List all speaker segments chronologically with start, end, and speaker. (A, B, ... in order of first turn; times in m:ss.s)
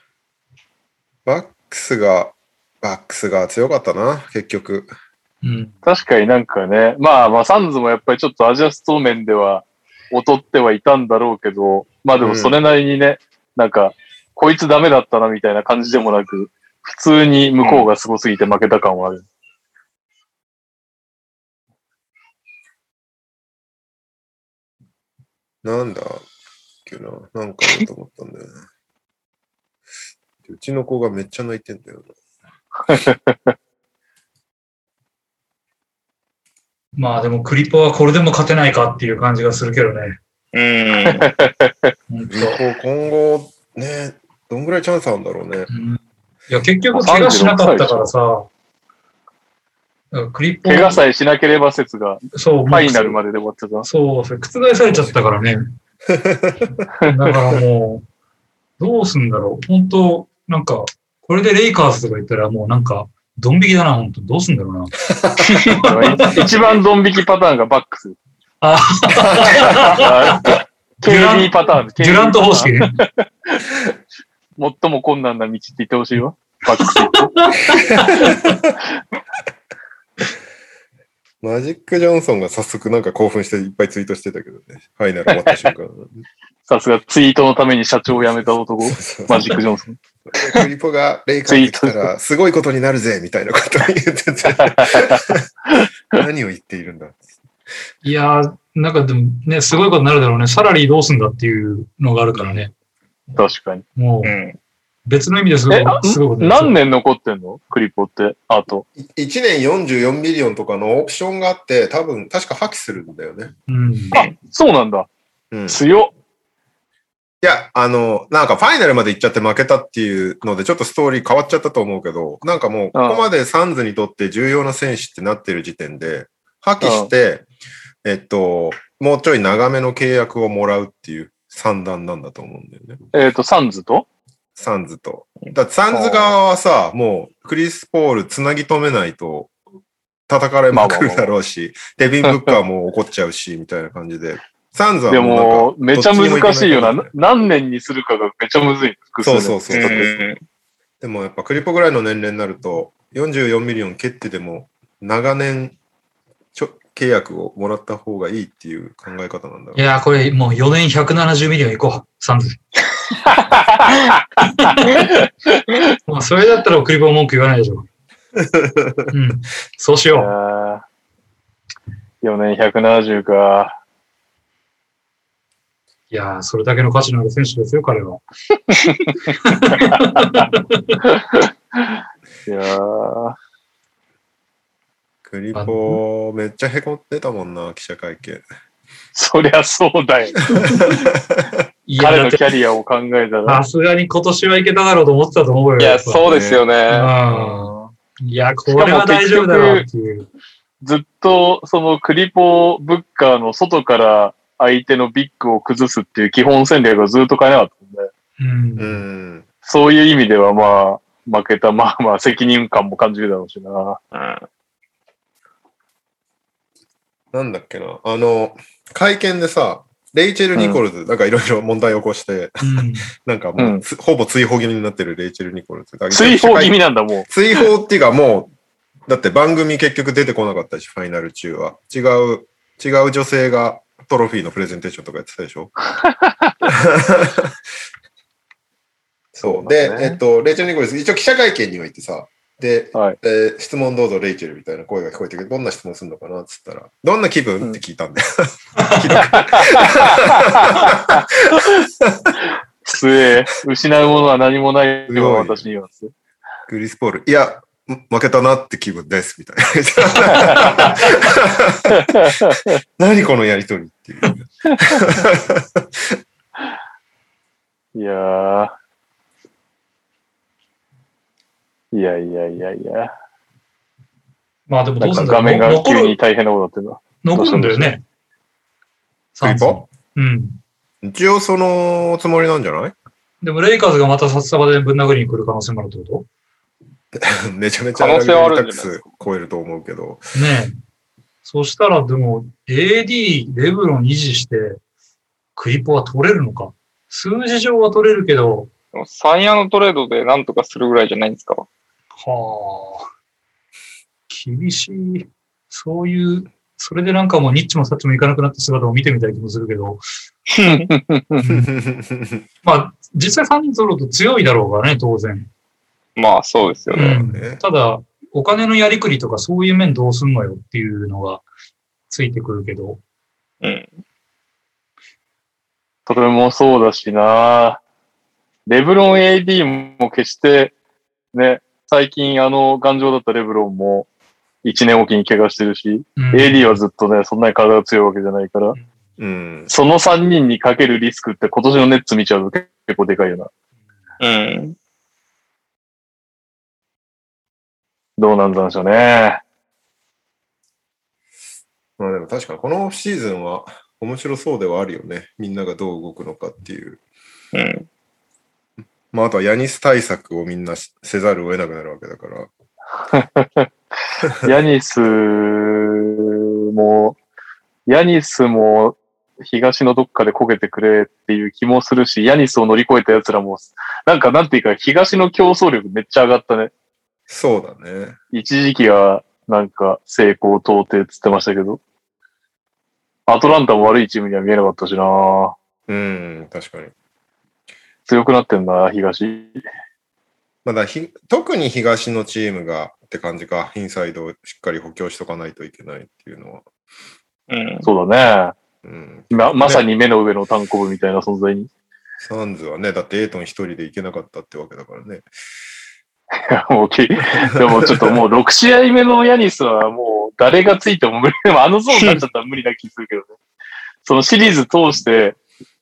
0:01.3-0:04.9 A
0:05.4-0:05.8 B
0:05.8-0:19.2 C
0:12.2-0:12.6 A
0:25.6-0:26.2 A
0:26.9-0:28.5 A
0:30.4-0:32.1 A
0:32.9-0:33.5 C
0:37.0-0:40.2 B
0:40.5-0:41.3 D
0:41.1-0:41.7 C
0:42.1-0:42.6 B
0:42.3-0:45.7 A
0:45.7-0:48.5 B
0:46.9-0:48.1 C
0:50.1-0:51.0 B
0:50.6-0:53.9 C
0:52.3-0:53.2 B
0:53.8-0:55.7 B
0:56.1-0:56.8 A
0:57.0-0:58.0 B
0:58.8-1:05.0 B
1:05.1-1:05.6 A
1:05.5-1:05.8 D
1:05.7-1:06.4 B
1:05.8-1:08.2 C
1:08.6-1:10.6 B
1:09.3-1:09.7 A
1:09.4-1:13.6 C
1:11.1-1:13.0 B
1:14.6-1:17.5 C
1:16.8-1:18.4 B
1:17.9-1:18.7 A
1:21.4-1:26.2 A
1:25.3-1:25.7 C
1:26.7-1:30.0 C
1:28.8-1:29.6 A
1:30.3-1:35.5 A
1:31.5-1:32.1 C
1:34.6-1:35.2 C
1:36.1-1:37.3 A
1:38.0-1:42.7 B
1:43.4-1:43.8 C
1:44.0-1:44.4 B
1:44.2-1:44.6 D
1:45.1-1:46.8 B
1:45.7-1:48.9 C
1:49.0-1:53.5 A
1:53.7-1:54.2 B
1:54.1-1:55.1 C
1:55.5-1:55.8 A
1:55.7-1:56.1 C
1:57.4-2:07.5 A
2:02.9-2:03.3 C
2:06.8-2:07.1 C
2:08.0-2:13.0 A
2:13.1-2:14.1 C
2:14.6-2:19.5 A
2:15.9-2:16.4 C
2:20.3-2:27.1 A
2:20.7-2:21.3 C
2:22.3-2:22.5 C
2:25.1-2:30.1 C
2:29.2-2:30.3 A
2:29.7-2:30.4 D
2:31.0-2:35.8 A
2:36.6-2:39.8 A
2:39.8-2:42.6 B
2:44.4-2:45.0 B
2:46.1-2:47.9 B
2:48.4-2:49.1 A
2:49.1-2:50.3 B
2:50.1-2:50.8 C
2:52.2-2:53.8 C
2:56.1-2:58.2 B
2:59.4-3:01.0 B
3:01.0-3:03.4 C
3:05.2-3:08.4 A
3:05.6-3:06.0 B
3:09.2-3:10.9 C
3:10.6-3:11.5 A
3:11.9-3:12.4 B
3:12.0-3:13.6 C
3:13.5-3:16.2 B
3:15.8-3:17.1 D
3:16.2-3:16.6 A
3:16.9-3:20.3 B
3:17.3-3:17.9 C
3:18.7-3:19.8 C
3:20.8-3:28.1 C
3:28.4-3:29.0 B
3:28.8-3:29.4 A
3:29.6-3:34.0 C
3:34.1-3:34.4 D
3:37.3-3:46.8 A
3:42.6-3:43.1 B
3:43.6-3:43.8 C
3:46.1-3:47.6 C
3:47.3-3:48.5 A
3:49.1-3:55.7 A
3:56.0-3:56.5 C
3:56.7-3:57.6 A
3:59.3-4:12.3 A
3:59.4-4:00.2 C
4:09.2-4:11.2 C
4:12.8-4:16.1 C
4:15.1-4:15.6 A
4:16.7-4:26.2 A
4:20.3-4:20.7 C
4:21.9-4:22.7 C
4:28.0-4:28.7 C
4:31.9-4:33.1 C
4:34.7-4:36.2 B
4:35.0-4:37.9 C
4:37.2-4:38.0 B
4:39.4-4:40.6 B
4:39.4-4:39.8 A
4:41.0-4:42.9 A
4:43.4-4:46.3 B
4:47.2-4:50.3 A
4:48.0-4:49.1 D
4:50.3-4:50.8 B
4:51.4-4:54.8 B
4:55.6-4:58.7 B
4:58.9-5:01.7 D
5:02.2-5:03.1 B
5:04.3-5:10.0 B
5:10.5-5:10.9 D
5:10.6-5:11.4 C
5:11.4-5:11.7 B
5:11.4-5:12.4 A
5:12.6-5:15.5 B
5:16.2-5:17.2 D
5:16.9-5:21.4 B
5:17.0-5:17.6 A
5:22.1-5:23.0 B
5:23.6-5:23.9 D
5:26.1-5:27.8 C
5:28.7-5:30.7 C
5:31.3-5:34.1 C
5:34.6-5:38.8 C
5:36.2-5:36.8 B
5:39.2-5:39.7 A
5:39.7-5:43.5 C
5:44.2-5:44.8 D
5:48.2-5:49.4 C
5:52.0-5:57.0 A
5:57.5-5:57.9 D
5:59.1-6:02.5 A
6:03.1-6:03.7 C
6:04.4-6:07.2 C
6:07.9-6:16.7 C
6:17.3-6:18.2 A
6:18.3-6:21.8 C
6:23.3-6:25.6 C
6:25.9-6:26.9 A
6:28.1-6:29.6 C
6:30.6-6:36.6 A
6:37.5-6:37.9 D
6:37.8-6:38.6 C
6:38.8-6:39.9 A
6:39.3-6:41.7 C
6:42.2-6:45.3 A
6:46.4-6:53.3 C
6:47.6-6:48.1 A
6:51.9-6:52.2 D
6:54.0-6:55.4 C